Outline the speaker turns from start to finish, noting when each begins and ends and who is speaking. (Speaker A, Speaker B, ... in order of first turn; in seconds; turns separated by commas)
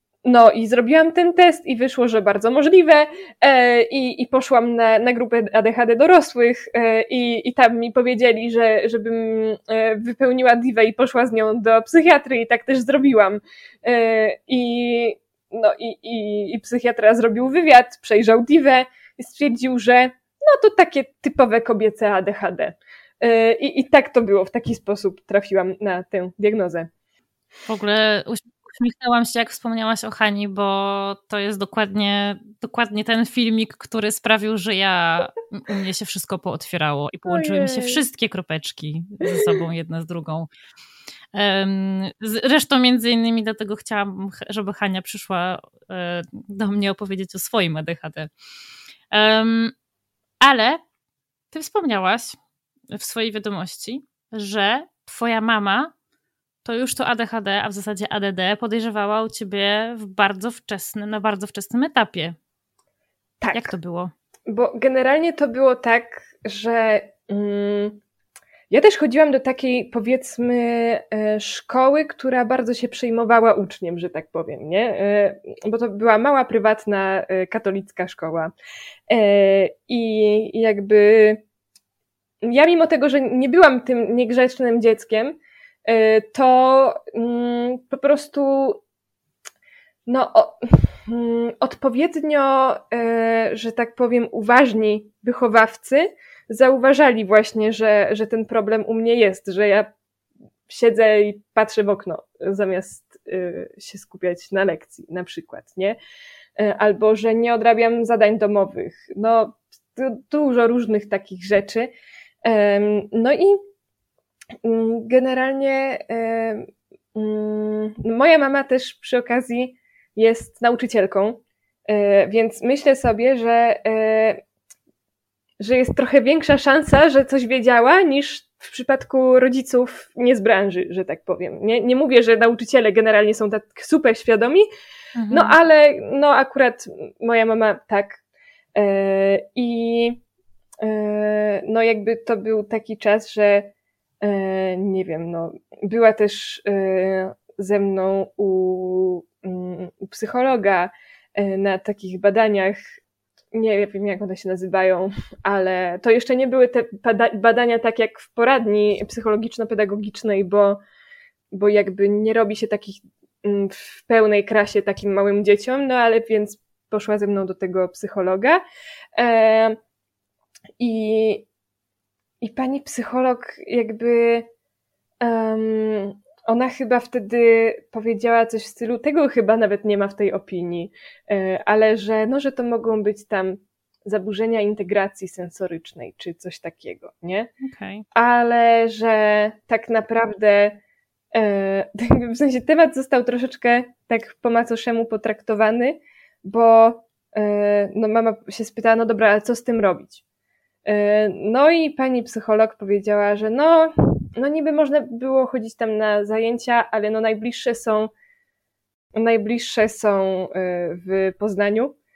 Speaker A: 0.2-26.9, Speaker B: 27.7-40.5, Speaker A: 37.3-38.0, Speaker B: 41.3-48.3, Speaker B: 49.1-49.7, Speaker B: 50.4-50.8, Speaker B: 51.5-52.4, Speaker B: 52.9-55.9, Speaker B: 56.6-62.4, Speaker A: 63.4-63.7, Speaker B: 63.5-64.1, Speaker A: 64.5-68.0, Speaker A: 68.7-78.5, Speaker A: 79.1-81.4, Speaker A: 82.4-88.8, Speaker A: 90.1-99.9, Speaker A: 100.7-106.0, Speaker A: 106.6-111.9, Speaker A: 112.4-113.6, Speaker A: 114.6-124.4, Speaker A: 125.6-134.7, Speaker B: 135.2-135.5, Speaker A: 135.3-138.2, Speaker A: 138.7-140.2, Speaker A: 140.8-152.8, Speaker A: 153.5-160.8, Speaker A: 161.5-168.6, Speaker A: 169.2-169.8, Speaker A: 170.8-171.4, Speaker A: 172.4-174.5, Speaker A: 175.2-187.5, Speaker B: 187.6-188.0, Speaker A: 188.1-190.8, Speaker A: 191.3-200.2, Speaker A: 200.8-208.1, Speaker A: 209.2-211.9